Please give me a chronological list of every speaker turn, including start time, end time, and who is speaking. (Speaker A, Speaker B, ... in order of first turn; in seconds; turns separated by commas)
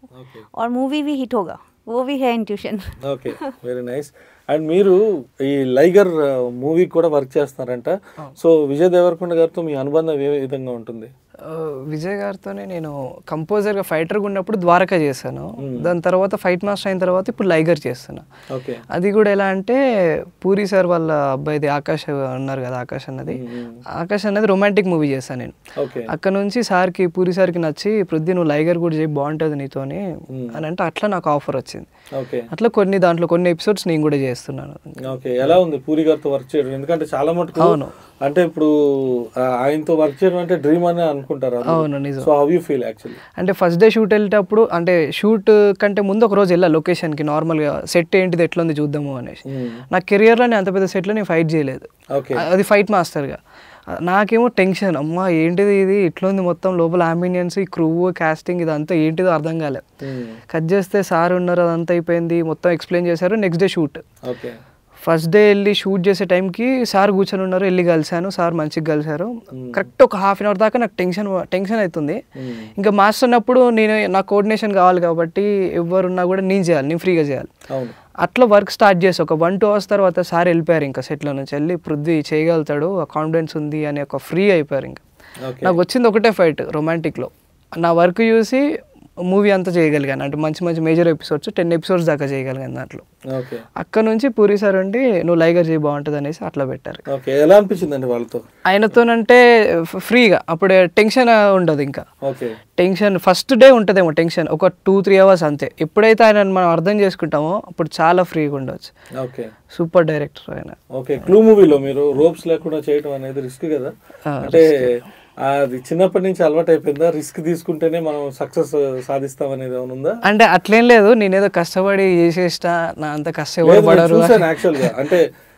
Speaker A: 0.1-0.4, Speaker B: 0.6-3.5, Speaker A: 3.0-11.1, Speaker C: 11.5-18.2, Speaker A: 15.6-15.9, Speaker A: 18.5-18.8, Speaker C: 18.9-19.8, Speaker C: 20.4-23.4, Speaker A: 23.3-23.8, Speaker C: 24.0-25.6, Speaker A: 25.8-26.1, Speaker C: 26.1-30.0, Speaker A: 30.3-30.5, Speaker C: 30.5-31.9, Speaker A: 32.1-32.4, Speaker C: 32.5-34.9, Speaker A: 35.1-43.2, Speaker C: 37.6-37.9, Speaker C: 41.7-42.3, Speaker C: 43.4-53.4, Speaker A: 49.5-49.8, Speaker A: 52.1-52.4, Speaker C: 54.0-59.8, Speaker A: 60.0-60.4, Speaker C: 60.5-64.0, Speaker A: 64.2-64.6, Speaker C: 65.0-72.2, Speaker A: 69.5-69.8, Speaker A: 72.3-72.7, Speaker C: 72.8-77.5, Speaker A: 77.7-78.0, Speaker C: 78.2-85.0, Speaker A: 85.4-85.8, Speaker C: 85.6-88.6, Speaker C: 89.3-93.0, Speaker A: 93.3-93.6, Speaker C: 93.8-97.0, Speaker A: 97.1-98.4, Speaker C: 98.7-99.4, Speaker C: 99.9-102.0, Speaker A: 102.2-102.5, Speaker C: 102.8-108.9, Speaker A: 109.2-109.5, Speaker C: 109.7-110.8, Speaker A: 110.9-120.2, Speaker C: 114.3-115.0, Speaker C: 120.2-124.9, Speaker A: 123.6-125.2